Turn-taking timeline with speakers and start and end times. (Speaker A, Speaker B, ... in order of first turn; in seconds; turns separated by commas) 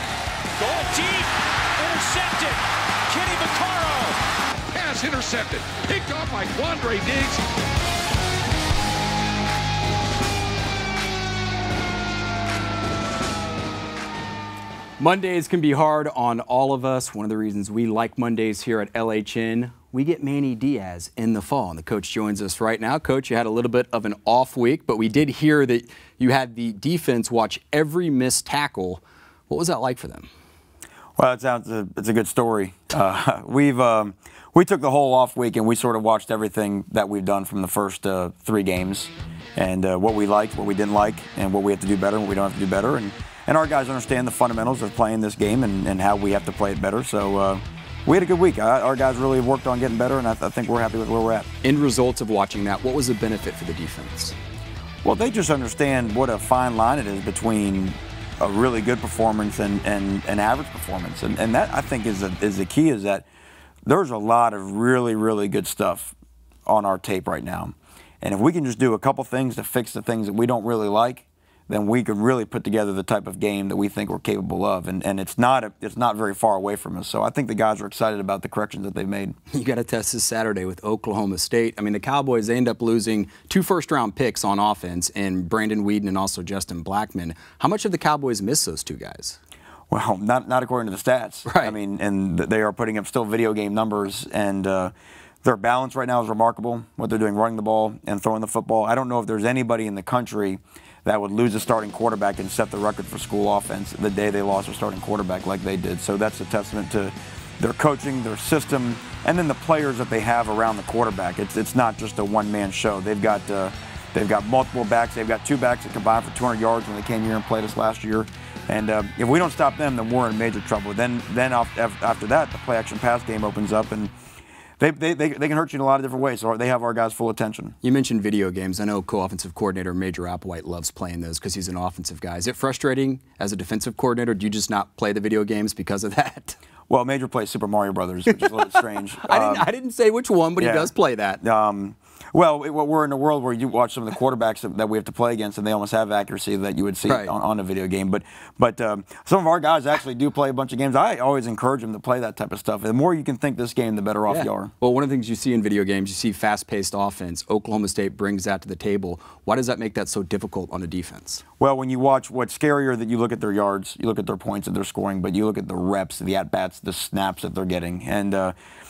Speaker A: 0.6-4.2, Speaker B: 4.7-7.4, Speaker C: 15.0-30.3, Speaker D: 31.2-51.5, Speaker C: 51.6-54.4, Speaker D: 55.0-63.2, Speaker D: 63.9-66.1, Speaker D: 66.7-79.4, Speaker C: 79.5-89.4, Speaker D: 89.9-124.1, Speaker C: 91.5-91.8, Speaker D: 124.8-127.8, Speaker C: 127.8-136.6, Speaker D: 136.9-139.7, Speaker C: 138.3-141.4, Speaker D: 140.6-154.7, Speaker C: 147.1-147.3, Speaker C: 154.3-161.4, Speaker D: 161.6-168.6